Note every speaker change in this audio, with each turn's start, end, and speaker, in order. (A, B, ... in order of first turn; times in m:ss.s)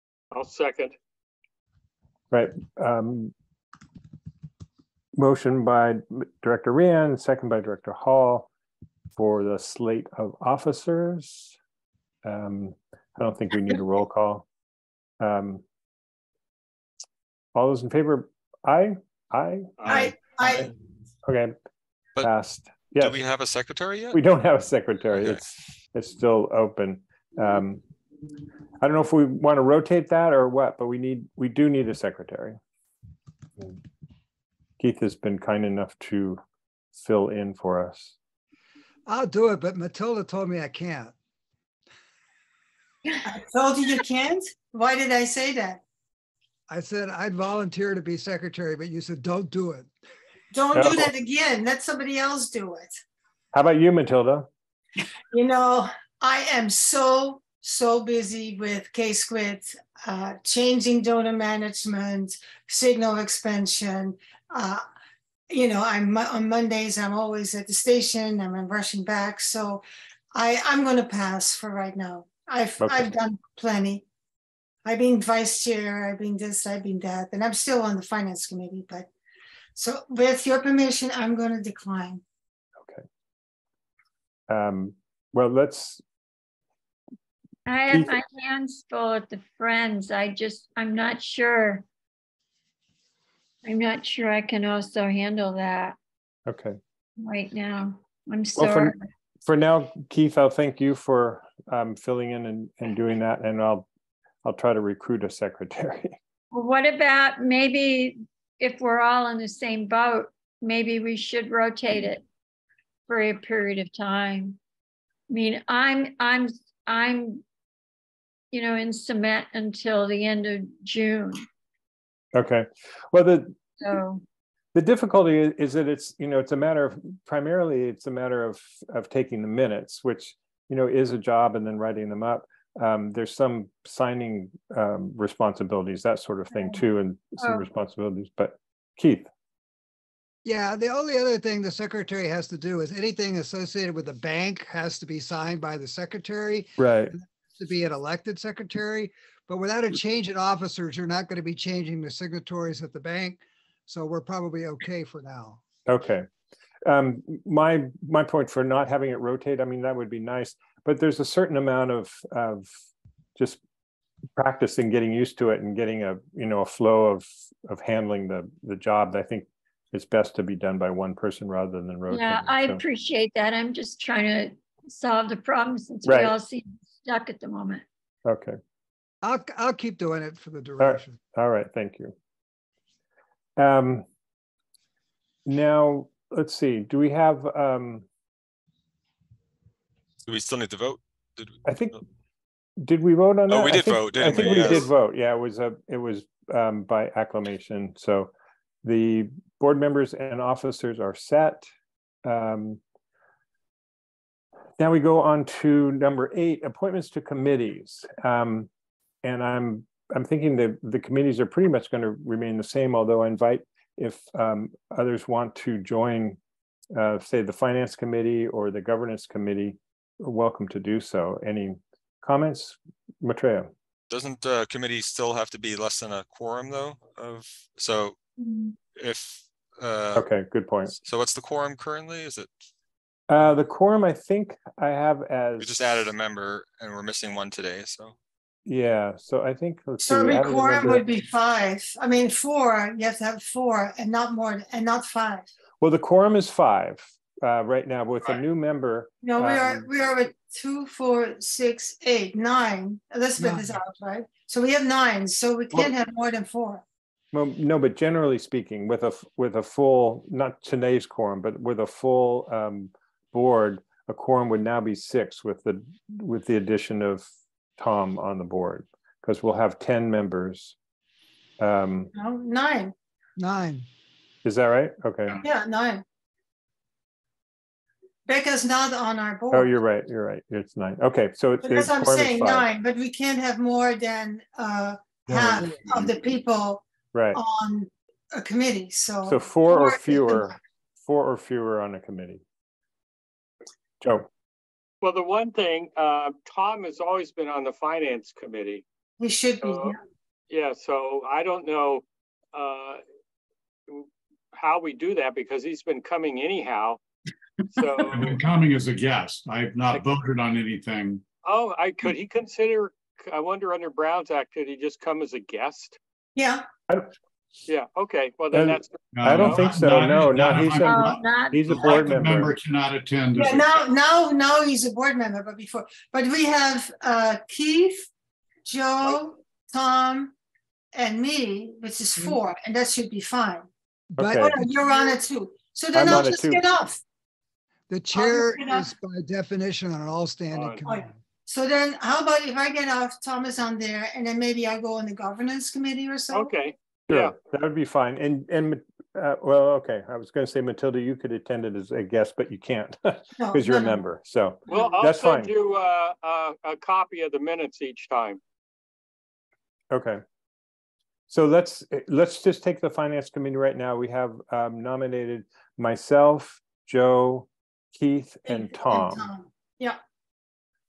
0:00.3-0:01.0 A
0:02.3-0:03.3 B
0:05.2-0:08.5 B
0:09.2-0:11.6 B
0:12.2-0:14.5 B
0:15.2-0:15.6 B
0:17.6-0:20.5 B
0:19.8-0:20.1 A
0:19.9-0:20.7 C
0:21.2-0:21.5 B
0:22.2-0:23.2 B
0:23.0-0:24.2 D
0:24.1-0:27.8 B
0:25.1-0:25.4 D
0:28.8-0:32.6 B
0:34.8-0:36.4 B
0:37.0-0:38.2 B
0:39.1-0:41.2 E
0:43.2-0:45.8 C
0:46.7-0:49.9 E
0:50.5-0:53.0 C
0:50.7-0:51.1 B
0:53.5-0:54.5 B
0:55.3-1:04.8 C
1:05.5-1:09.8 C
1:10.3-1:14.0 C
1:12.8-1:13.1 B
1:14.8-1:19.1 C
1:19.8-1:22.2 C
1:24.5-1:26.0 B
1:27.7-1:31.8 F
1:27.9-1:28.2 B
1:33.6-1:36.0 F
1:36.5-1:36.8 B
1:37.2-1:39.1 F
1:38.6-1:38.9 B
1:39.5-1:43.9 B
1:44.4-1:46.2 B
1:46.5-1:52.2 F
1:53.1-1:54.6 F
1:55.3-1:57.4 F
1:58.5-2:01.5 F
2:02.3-2:03.6 B
2:03.8-2:04.2 F
2:04.7-2:19.3 B
2:16.5-2:16.8 F
2:17.4-2:17.7 F
2:20.4-2:35.6 E
2:26.8-2:27.2 B
2:35.9-2:36.3 B
2:36.8-2:42.7 B
2:44.4-2:52.8 B
2:52.1-2:57.8 F
2:56.0-2:56.3 B
2:58.2-2:58.6 B
2:59.2-3:01.2 E
3:00.8-3:02.1 B
3:03.6-3:04.1 B
3:05.5-3:08.1 B
3:10.3-3:11.6 D
3:11.6-3:12.0 B
3:12.8-3:18.3 B
3:13.5-3:14.9 D
3:18.8-3:21.6 B
3:22.2-3:22.8 B
3:24.8-3:28.7 B
3:29.2-3:36.4 B
3:36.9-3:43.7 B
3:44.1-3:48.2 D
3:49.0-3:50.3 D
3:50.1-3:50.9 B
3:50.9-3:52.5 D
3:53.3-3:56.1 B
3:55.6-3:58.2 D
3:58.7-4:01.1 B
4:00.0-4:05.5 C
4:05.8-4:09.9 B
4:09.2-4:16.8 C
4:13.4-4:13.7 E
4:17.3-4:30.8 B
4:31.6-4:32.1 B
4:32.2-4:32.9 C
4:33.4-4:33.9 E
4:34.4-4:35.4 B
4:35.4-4:36.0 C
4:38.3-4:39.7 C
4:39.5-4:42.7 B
4:41.6-4:50.5 C
4:45.4-4:45.7 B
4:47.1-4:47.4 B
4:49.2-4:52.4 B
4:54.0-4:54.3 B
4:55.0-4:58.8 A
4:59.2-5:00.0 C
4:59.6-5:00.0 A
5:00.5-5:03.0 A
5:03.9-5:07.0 A
5:07.8-5:08.4 A
5:07.8-5:11.2 G
5:11.4-5:16.0 A
5:16.4-5:16.7 C
5:17.7-5:19.7 A
5:18.5-5:22.6 B
5:19.1-5:23.7 G
5:20.8-5:21.8 F
5:23.4-5:28.1 C
5:28.6-5:30.3 C
5:30.9-5:33.7 C
5:34.2-5:34.6 B
5:34.2-5:34.7 E
5:34.4-5:37.0 C
5:36.0-5:36.6 B
5:37.9-5:41.2 E
5:38.2-5:38.9 C
5:40.5-5:40.8 A
5:40.8-5:46.5 C
5:46.3-5:47.4 A
5:47.1-5:55.5 B
5:53.4-5:54.0 C
5:54.7-5:58.4 A
5:59.9-6:00.2 B
6:01.3-6:09.3 B
6:08.5-6:10.0 C